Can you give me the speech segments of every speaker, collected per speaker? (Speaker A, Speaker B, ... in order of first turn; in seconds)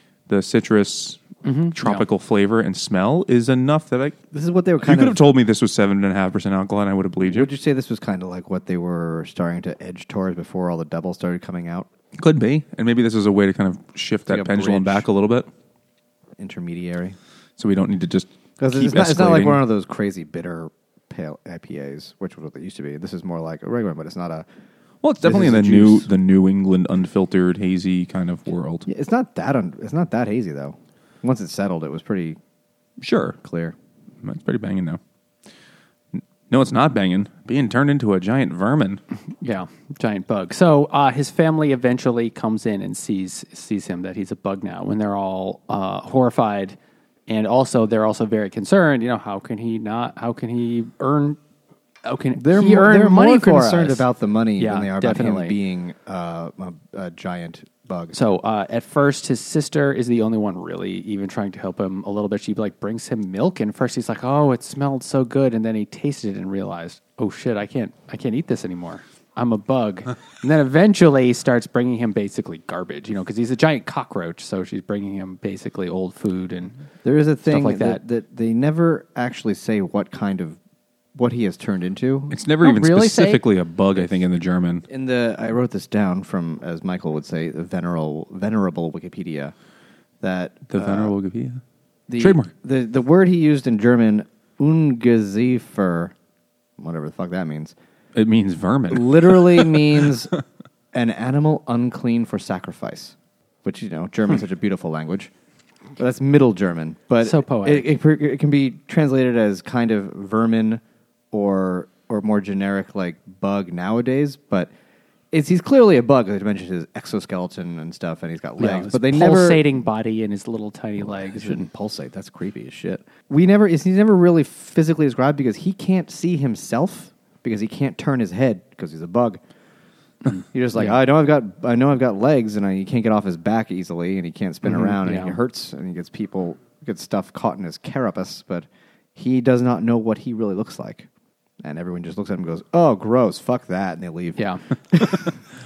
Speaker A: 0.3-4.2, 4.8-7.5, 12.2-15.5, 17.6-19.6, 25.0-28.9, 33.0-33.4, 34.2-35.0, 36.1-39.0, 82.3-84.8, 90.7-91.6, 92.2-92.5, 98.2-100.1
Speaker B: 1.4-2.0, 39.4-46.8, 47.3-51.4, 52.0-54.0, 54.6-55.6, 58.1-76.8, 77.5-78.0, 82.6-83.4, 107.2-107.9, 118.6-121.7, 130.3-130.9, 134.7-135.4, 144.4-144.6
Speaker C: 4.3-5.2, 7.2-11.9, 14.3-15.1, 16.4-17.2, 18.6-24.5, 25.2-26.1, 28.9-32.4, 33.4-33.8, 52.4-58.2, 77.0-80.6, 81.2-82.3, 84.9-89.5, 90.2-91.1, 92.1-96.2, 96.8-97.8, 98.9-100.3, 100.9-105.3, 106.0-114.7, 115.3-119.7, 121.0-129.4, 130.5-141.1, 141.6-145.3